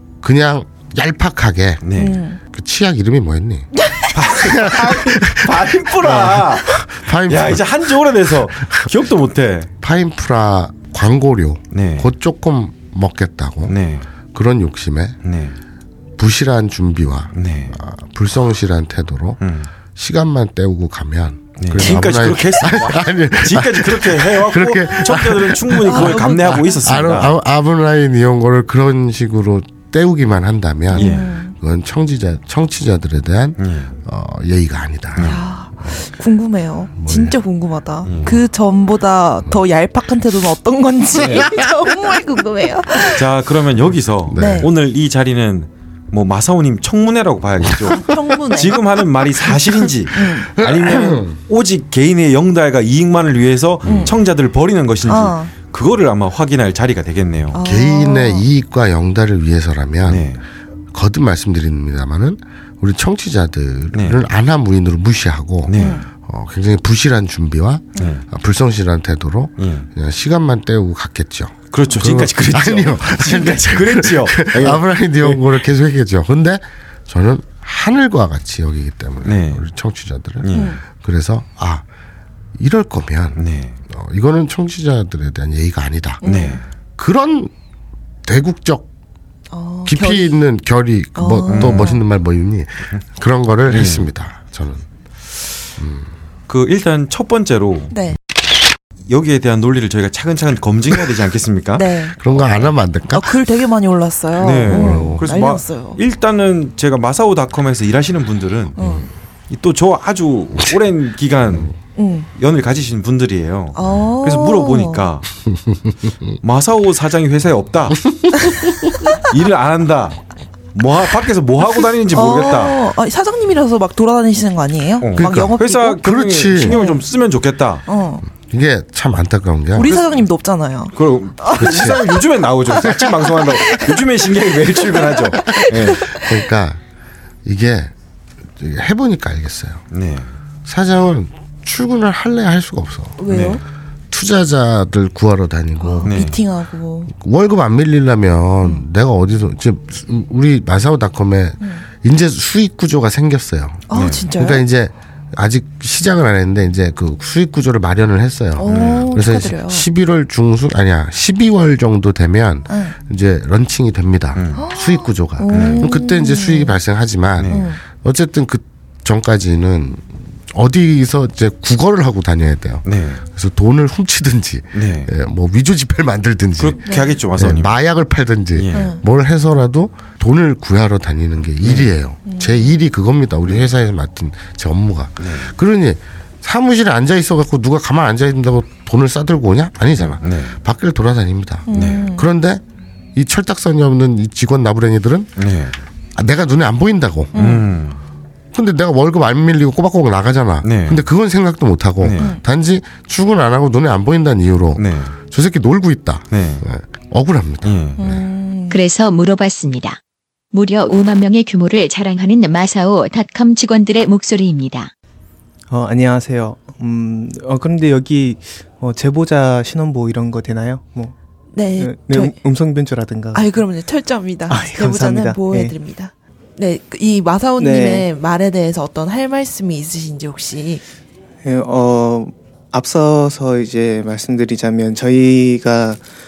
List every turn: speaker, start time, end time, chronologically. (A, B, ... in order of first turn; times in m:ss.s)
0:00.2-0:01.8 A
0:01.8-0:02.2 B
0:02.0-0:02.4 C
0:02.5-0:03.7 A
0:04.1-0:09.7 B
0:04.3-0:07.7 A
0:08.2-0:08.9 A
0:09.8-0:13.7 A
0:11.7-0:12.1 B
0:13.7-0:14.0 B
0:14.3-0:15.2 A
0:15.2-0:15.5 B
0:16.2-0:19.4 A
0:17.3-0:17.8 B
0:19.4-0:19.7 B
0:20.0-0:35.4 A
0:21.6-0:27.3 B
0:25.8-0:27.0 C
0:30.9-0:31.5 C
0:30.9-0:31.2 B
0:33.6-0:34.0 B
0:35.2-0:43.2 C
0:37.0-0:37.4 A
0:38.0-0:38.4 B
0:41.2-0:41.5 B
0:43.1-0:57.6 B
0:44.3-0:44.7 A
0:44.4-0:44.7 C
0:47.9-0:48.8 C
0:50.1-0:50.4 C
0:50.2-0:51.4 A
0:53.8-0:54.1 A
0:55.1-0:55.5 C
0:57.5-0:58.4 C
0:57.6-1:00.3 A
1:00.0-1:00.4 B
1:00.9-1:21.8 A
1:05.6-1:06.0 B
1:05.8-1:06.0 C
1:08.0-1:08.2 B
1:09.6-1:09.9 B
1:11.7-1:15.4 B
1:19.2-1:19.6 B
1:20.4-1:20.7 B
1:20.5-1:20.8 C
1:22.6-1:26.2 A
1:23.4-1:23.8 B
1:26.2-1:26.6 C
1:26.2-1:26.6 B
1:27.0-1:27.5 A
1:28.2-1:28.9 A
1:29.5-1:30.4 C
1:29.8-1:34.8 A
1:31.2-1:32.0 C
1:31.5-1:31.9 B
1:33.7-1:34.1 B
1:35.8-1:36.1 A
1:36.5-1:37.9 B
1:37.9-1:38.2 C
1:39.1-1:42.7 B
1:41.8-1:42.2 C
1:42.2-1:43.4 A
1:43.1-1:46.0 C
1:44.4-1:48.8 B
1:44.7-1:45.2 A
1:48.8-1:49.0 C
1:48.8-1:49.0 A
1:49.5-1:51.7 B
1:52.0-1:52.3 C
1:52.4-1:55.3 B
1:53.7-1:55.0 C
1:55.4-1:56.3 A
1:56.4-1:58.0 B
1:58.0-1:58.8 A
1:59.2-2:00.2 B
2:00.7-2:02.8 B
2:02.1-2:06.0 C
2:05.0-2:07.8 B
2:05.2-2:06.8 A
2:06.6-2:07.0 C
2:07.9-2:08.2 C
2:08.5-2:10.2 A
2:09.8-2:12.1 C
2:10.9-2:16.0 B
2:11.6-2:12.0 A
2:12.8-2:13.8 A
2:14.9-2:16.3 C
2:15.3-2:16.8 A
2:17.4-2:17.9 A
2:18.6-2:19.8 A
2:19.9-2:20.3 B
2:20.6-2:23.2 A
2:23.2-2:23.6 C
2:23.3-2:23.6 B
2:24.1-2:26.2 A
2:25.8-2:27.1 C
2:26.0-2:26.4 B
2:27.1-3:12.6 A
2:31.6-2:31.8 C
2:33.9-2:34.6 C
2:33.9-2:34.2 B
2:38.6-2:39.8 C
2:38.7-2:39.1 B
2:42.7-2:43.0 C
2:44.3-2:44.6 B
2:44.5-2:46.8 C
2:45.5-2:45.9 B
2:47.4-2:47.6 B
2:47.5-2:47.8 C
2:52.8-2:53.2 B
2:54.7-2:55.1 B
2:56.6-2:57.7 B
2:56.8-2:57.2 C
2:58.6-2:58.9 B
2:58.7-2:59.0 C
3:01.6-3:01.9 B
3:02.2-3:02.7 C
3:05.2-3:05.5 B
3:10.1-3:10.6 B
3:11.7-3:12.3 C
3:11.7-3:12.0 B
3:13.1-3:15.3 A
3:15.4-3:15.8 B
3:16.2-3:17.4 A
3:17.3-3:17.6 C
3:17.3-3:18.0 B
3:18.5-3:28.2 A
3:20.6-3:21.0 B
3:22.0-3:22.3 B
3:24.8-3:25.1 B
3:26.3-3:26.6 B
3:27.6-3:28.0 B
3:28.0-3:28.8 C
3:28.7-3:30.0 D
3:30.5-3:34.9 D
3:35.7-3:41.1 E
3:41.5-3:42.3 C
3:41.8-3:43.4 E
3:43.3-3:50.8 C
3:44.5-3:45.7 E
3:47.6-3:48.0 E
3:51.4-3:56.0 E